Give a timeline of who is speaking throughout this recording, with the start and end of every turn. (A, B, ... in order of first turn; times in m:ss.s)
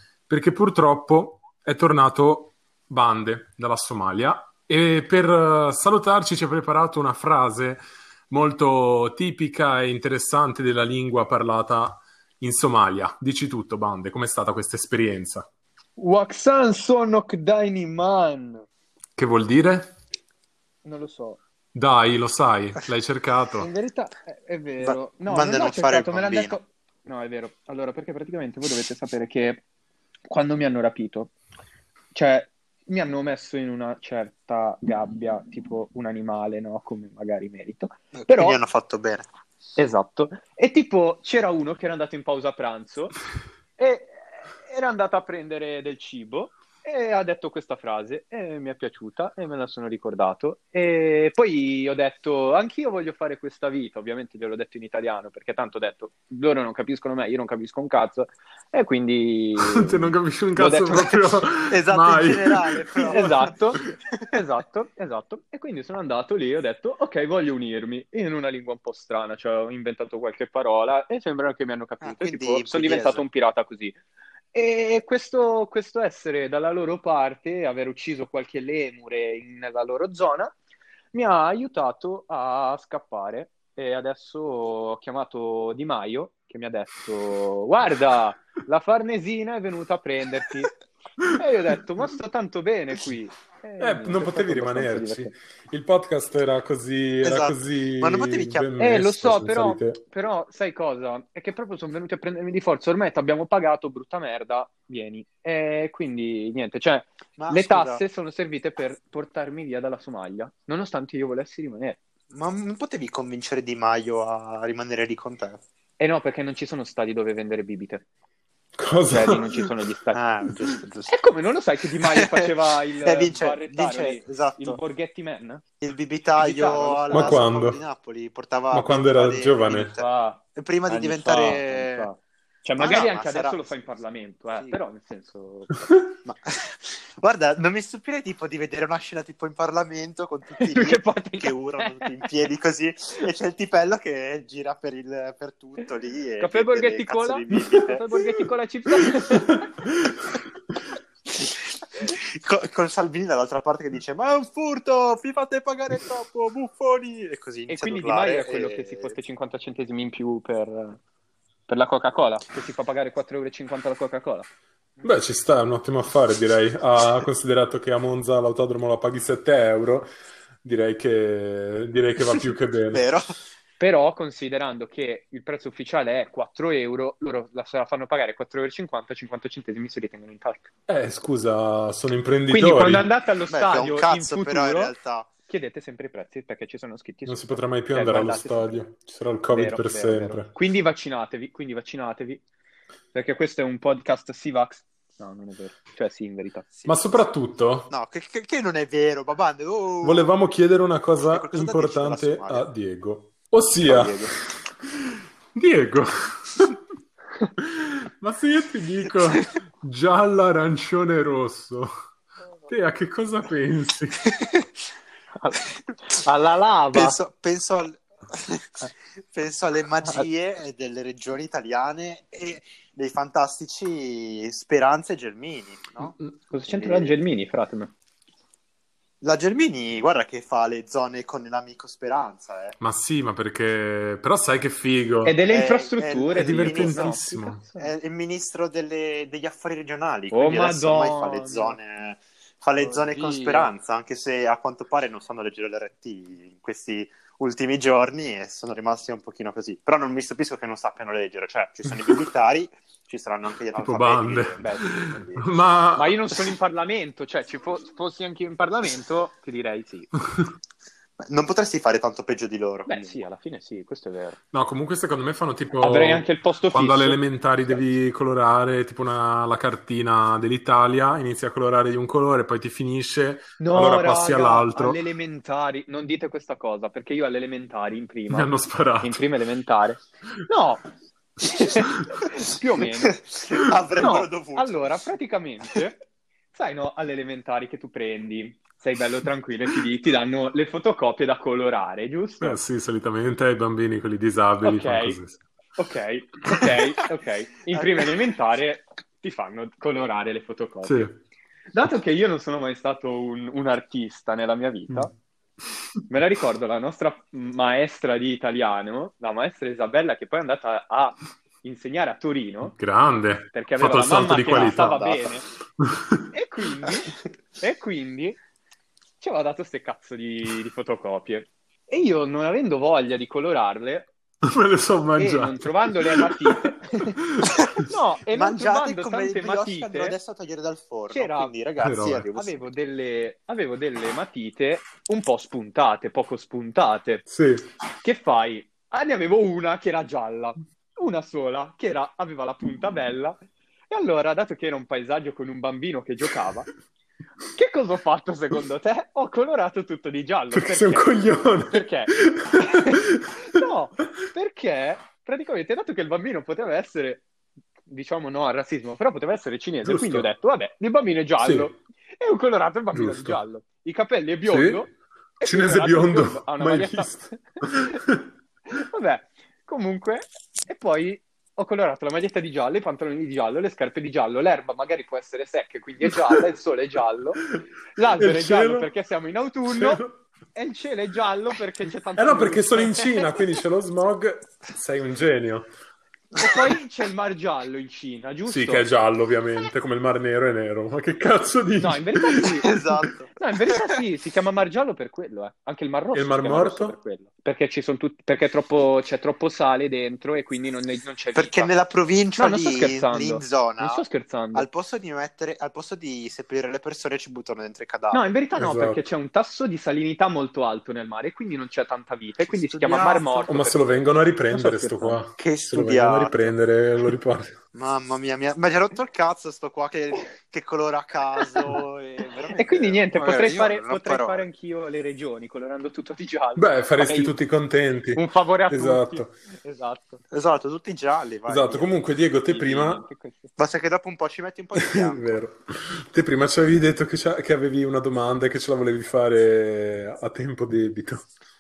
0:00.3-0:15.5 A
0:16.0-0:18.6 B
0:19.2-0:19.9 A
0:20.8-0:21.4 B
0:21.7-0:23.7 A
0:23.6-0:29.6 B
0:24.8-0:26.6 C
0:30.3-0:31.3 B
0:32.1-0:38.6 B
0:38.1-0:39.2 C
0:39.8-0:43.2 B
0:43.8-1:01.3 B
0:59.6-1:03.2 A
1:01.6-1:04.3 C
1:03.0-1:14.0 B
1:12.0-1:13.2 C
1:14.5-1:20.5 B
1:21.1-1:30.8 B
1:31.3-1:35.3 B
1:33.8-1:40.0 A
1:37.2-1:38.7 C
1:38.8-1:52.0 B
1:47.4-1:48.0 C
1:52.3-1:55.6 C
1:56.0-1:58.0 B
1:58.8-1:59.4 A
1:59.0-2:00.2 B
2:00.1-2:01.1 C
2:01.1-2:05.6 B
2:02.0-2:04.8 C
2:05.8-2:12.1 C
2:06.3-2:07.4 B
2:07.1-2:07.8 A
2:08.7-2:09.9 A
2:09.9-2:15.9 B
2:12.8-2:13.8 C
2:15.7-2:16.1 A
2:16.2-2:28.0 C
2:20.6-2:22.3 B
2:26.4-2:29.7 B
2:29.5-2:30.3 A
2:31.3-2:39.1 C
2:37.7-2:41.0 B
2:41.7-2:45.0 B
2:45.0-2:50.1 A
2:50.6-2:53.0 A
2:52.9-2:53.2 C
2:53.8-3:00.7 B
3:00.9-3:03.1 A
3:02.5-3:04.9 B
3:03.5-3:05.3 C
3:05.4-3:08.8 B
3:07.2-3:10.5 A
3:09.5-3:12.4 B
3:13.1-3:16.7 B
3:16.8-3:17.2 C
3:16.8-3:17.9 A
3:17.9-3:20.3 C
3:20.0-3:24.2 A
3:21.3-3:22.7 C
3:23.8-3:24.3 C
3:25.5-3:26.8 A
3:27.6-3:31.9 A
3:32.7-3:34.2 A
3:34.4-3:34.6 C
3:35.4-3:37.2 B
3:36.9-3:47.2 C
3:46.5-3:47.9 B
3:49.2-3:52.8 C
3:52.8-3:55.4 A
3:55.2-3:57.9 B
3:55.5-3:57.2 C
3:56.4-3:57.6 A
3:57.7-4:15.5 C
4:00.3-4:01.8 B
4:02.8-4:03.7 B
4:13.8-4:16.4 A
4:14.6-4:15.0 B
4:15.9-4:20.1 B
4:21.2-4:22.9 C
4:22.9-4:24.4 B
4:24.5-4:35.0 A
4:25.8-4:27.9 B
4:33.6-4:40.8 B
4:38.3-4:39.2 A
4:41.4-4:43.2 B
4:43.0-4:45.0 C
4:44.0-4:46.0 B
4:46.5-4:52.6 B
4:52.4-4:55.4 A
4:54.6-4:55.2 B
4:55.8-5:01.0 B
4:57.7-4:58.1 C
5:00.8-5:01.2 A
5:01.7-5:05.1 B
5:06.1-5:12.7 B
5:12.6-5:15.2 A
5:13.5-5:15.4 B
5:14.6-5:15.3 C
5:15.8-5:16.2 A
5:16.3-5:18.4 B
5:19.2-5:24.1 B
5:24.4-5:27.8 A
5:25.2-5:27.2 B
5:27.8-5:30.2 B
5:28.3-5:32.6 C
5:31.1-5:31.5 B
5:31.8-5:32.3 A
5:32.3-5:37.2 B
5:37.3-5:37.7 A
5:38.0-5:43.4 B
5:43.9-5:46.7 B
5:47.5-5:57.2 B
5:50.5-5:53.3 A
5:57.9-6:04.9 B
5:59.8-6:00.3 A
6:01.4-6:01.7 A
6:02.9-6:03.4 A
6:04.4-6:04.8 A
6:05.4-6:08.0 B
6:05.4-6:08.3 A
6:08.7-6:23.6 B
6:18.1-6:18.9 A
6:19.7-6:20.1 A
6:22.2-6:25.7 A
6:26.4-6:28.9 B
6:28.4-6:32.6 A
6:31.8-6:32.8 B
6:32.6-6:33.8 C
6:33.4-6:41.7 B
6:36.1-6:36.9 A
6:41.3-6:44.0 C
6:42.4-6:44.7 B
6:44.5-6:48.3 C
6:48.1-6:55.2 B
6:48.6-6:49.0 A
6:52.7-6:53.5 C
6:53.5-6:57.5 A
6:55.4-6:56.6 C
6:57.7-7:04.5 C
7:02.6-7:07.4 B
7:06.6-7:09.3 A
7:08.1-7:10.2 B
7:10.3-7:11.9 C
7:11.4-7:13.0 A
7:12.4-7:13.5 B
7:13.6-7:15.4 C
7:14.8-7:21.2 A